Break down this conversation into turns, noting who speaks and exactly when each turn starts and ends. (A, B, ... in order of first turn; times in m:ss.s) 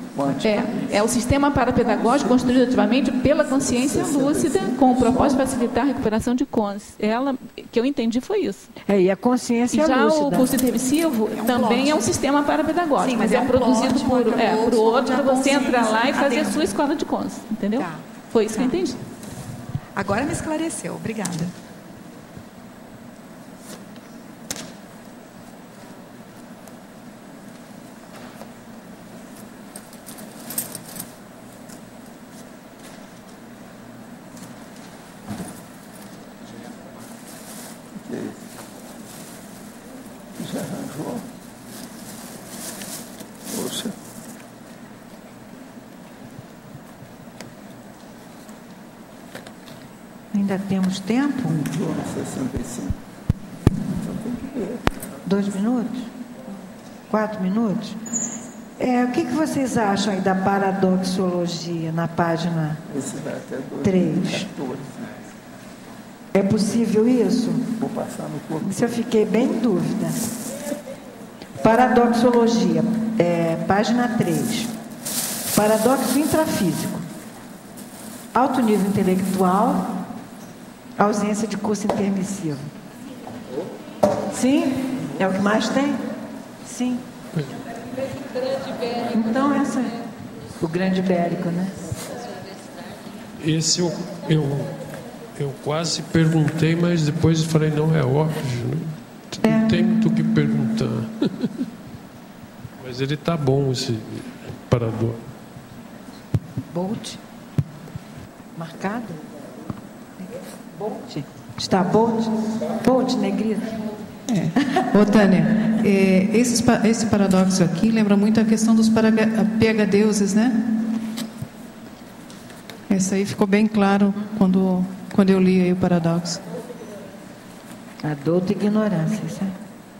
0:00.2-0:00.6 A
0:00.4-0:08.7 B
0:03.7-0:04.8 A
0:08.8-0:10.5 C
0:09.7-0:19.0 B
0:11.3-0:12.0 D
0:13.0-0:16.7 D
0:17.7-0:18.8 D
0:20.0-0:21.5 D
0:38.0-0:38.4 A
0:40.4-0:41.2 A
0:43.5-0:43.9 A
0:50.3-0:51.6 C
0:51.4-0:53.0 A
0:53.9-0:54.8 A
0:55.2-0:56.1 C
0:57.1-0:58.0 C
0:58.8-1:02.8 C
1:02.9-1:05.1 A
1:03.8-1:04.5 C
1:06.3-1:07.7 C
1:07.8-1:08.9 A
1:08.6-1:10.2 C
1:11.6-1:14.7 C
1:15.5-1:17.0 C
1:18.3-1:20.0 C
1:21.0-1:22.7 C
1:24.3-1:26.0 C
1:26.6-1:27.0 C
1:29.1-1:29.9 C
1:30.6-1:31.8 C
1:33.4-1:34.7 E
1:35.4-1:41.5 E
1:39.4-1:39.8 C
1:42.8-1:45.2 E
1:46.7-1:47.2 C
1:48.6-1:49.2 C
1:50.8-1:53.8 C
1:54.3-2:00.6 F
2:02.9-2:06.4 F
2:08.0-2:09.5 C